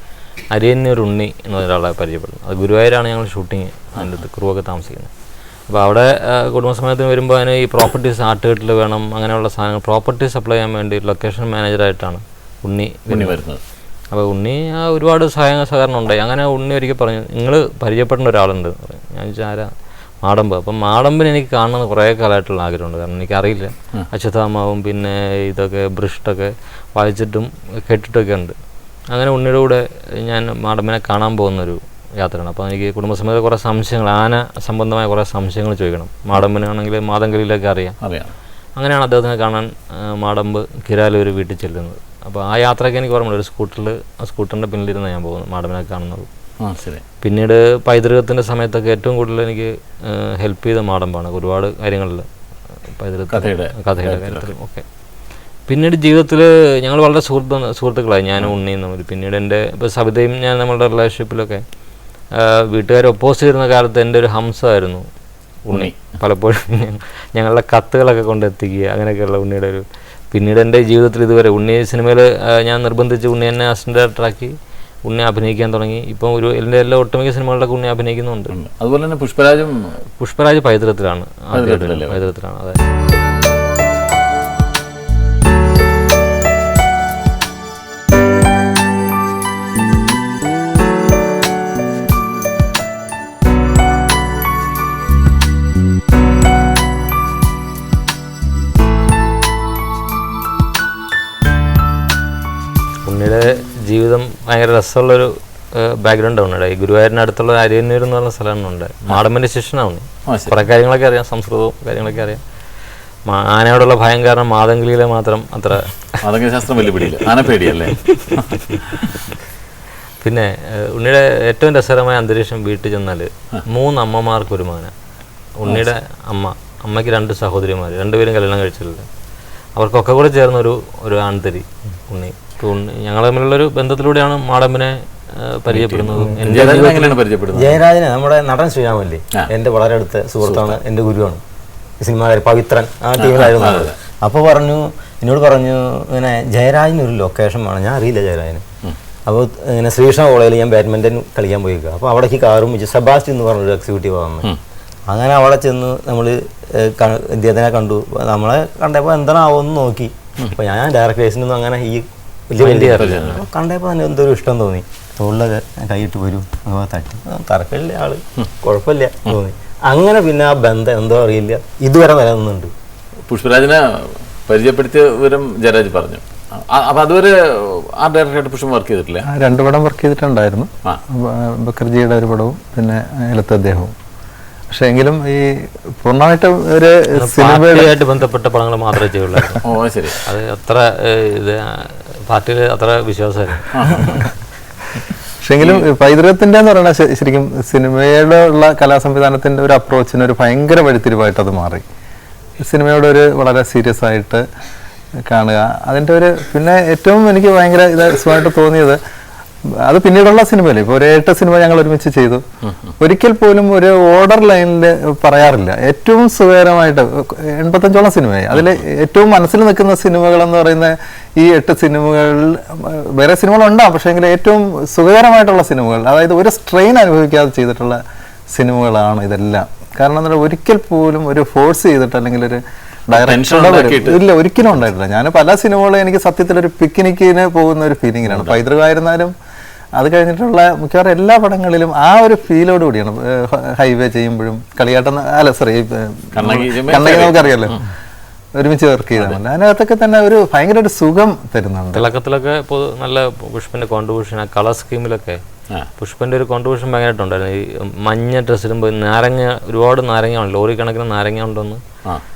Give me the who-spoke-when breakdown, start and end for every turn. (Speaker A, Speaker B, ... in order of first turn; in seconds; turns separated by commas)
Speaker A: 0.5-5.1, Speaker A: 5.7-13.3, Speaker B: 13.1-13.6, Speaker A: 14.1-19.7, Speaker A: 20.2-28.5, Speaker A: 29.1-37.9, Speaker B: 38.0-38.3, Speaker A: 38.8-46.3, Speaker B: 46.6-47.0, Speaker A: 47.2-52.3, Speaker A: 53.0-54.8, Speaker B: 53.3-54.5, Speaker A: 55.7-61.6, Speaker A: 62.3-65.0, Speaker A: 65.7-74.5, Speaker B: 65.7-66.1, Speaker A: 75.0-78.5, Speaker B: 78.5-80.0, Speaker A: 80.2-82.8, Speaker B: 81.5-82.2, Speaker A: 103.0-112.4, Speaker B: 110.3-110.5, Speaker A: 113.3-115.9, Speaker B: 116.2-119.1, Speaker A: 120.2-124.9, Speaker A: 125.6-129.1, Speaker A: 129.8-137.2, Speaker B: 135.7-137.8, Speaker C: 136.1-141.4, Speaker B: 140.4-140.8, Speaker C: 142.0-148.6, Speaker B: 143.2-143.9, Speaker C: 149.2-154.5, Speaker C: 155.1-172.7, Speaker A: 162.6-163.2, Speaker B: 162.9-163.4, Speaker B: 173.3-179.2, Speaker D: 179.2-183.9, Speaker D: 184.7-187.9, Speaker A: 187.2-189.6, Speaker B: 189.6-190.2, Speaker A: 190.2-194.3, Speaker B: 193.7-194.1, Speaker D: 195.4-201.8, Speaker B: 195.6-195.9, Speaker D: 202.7-204.4, Speaker D: 205.3-209.0, Speaker D: 209.8-212.4, Speaker D: 213.0-228.0, Speaker D: 228.5-239.3, Speaker B: 233.1-234.2, Speaker B: 238.3-238.6, Speaker D: 239.9-247.8, Speaker B: 246.3-247.8, Speaker D: 248.6-252.1, Speaker A: 251.9-255.4, Speaker A: 256.0-261.8